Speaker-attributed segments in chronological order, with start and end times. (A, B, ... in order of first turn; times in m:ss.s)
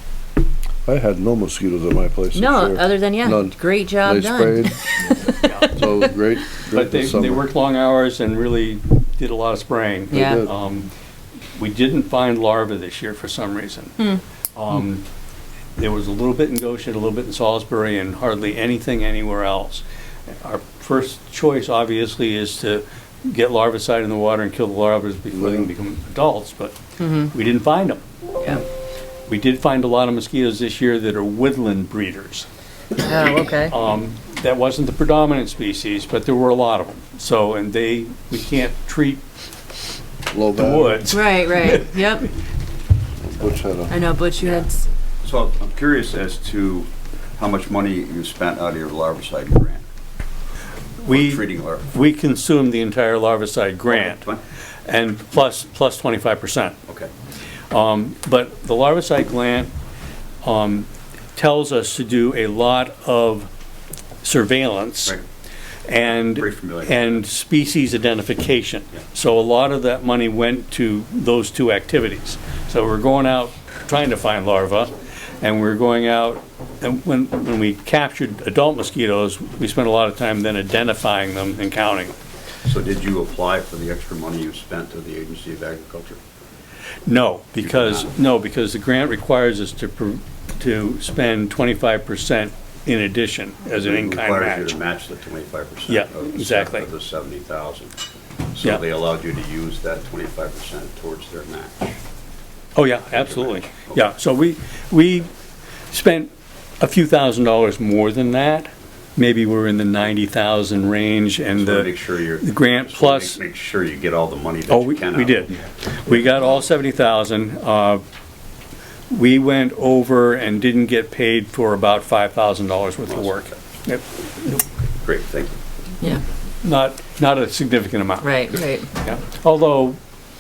0:00.9-0:04.8 A
0:02.3-0:05.7 B
0:05.3-0:05.8 C
0:05.7-0:07.4 A
0:06.7-0:10.9 C
0:10.1-0:10.5 B
0:10.1-0:10.5 A
0:11.6-0:14.0 C
0:14.6-0:15.0 C
0:15.8-0:26.8 C
0:25.3-0:25.7 A
0:27.0-0:27.3 B
0:27.3-0:28.6 C
0:29.3-0:32.5 C
0:33.0-0:33.7 B
0:33.7-0:39.2 C
0:40.3-0:41.1 A
0:40.6-0:42.0 C
0:41.1-0:42.3 B
0:43.2-0:43.9 A
0:43.9-0:44.8 B
0:45.2-0:49.8 D
0:51.0-0:54.2 C
0:51.1-0:51.9 D
0:53.9-0:54.4 D
0:54.9-0:56.8 C
0:57.7-0:59.7 C
1:00.4-1:03.5 C
1:04.2-1:05.2 C
1:05.9-1:22.2 C
1:06.4-1:07.2 D
1:22.6-1:26.2 D
1:27.1-1:34.8 C
1:27.6-1:28.2 D
1:33.8-1:38.0 D
1:35.9-1:36.9 C
1:38.5-1:42.0 D
1:42.8-1:45.3 C
1:43.1-1:44.1 D
1:45.9-1:53.4 C
1:51.6-1:55.6 D
1:54.7-1:58.0 C
1:59.1-2:04.6 C
2:03.1-2:03.6 D
2:05.0-2:05.6 D
2:06.6-2:10.0 C
2:08.2-2:08.9 B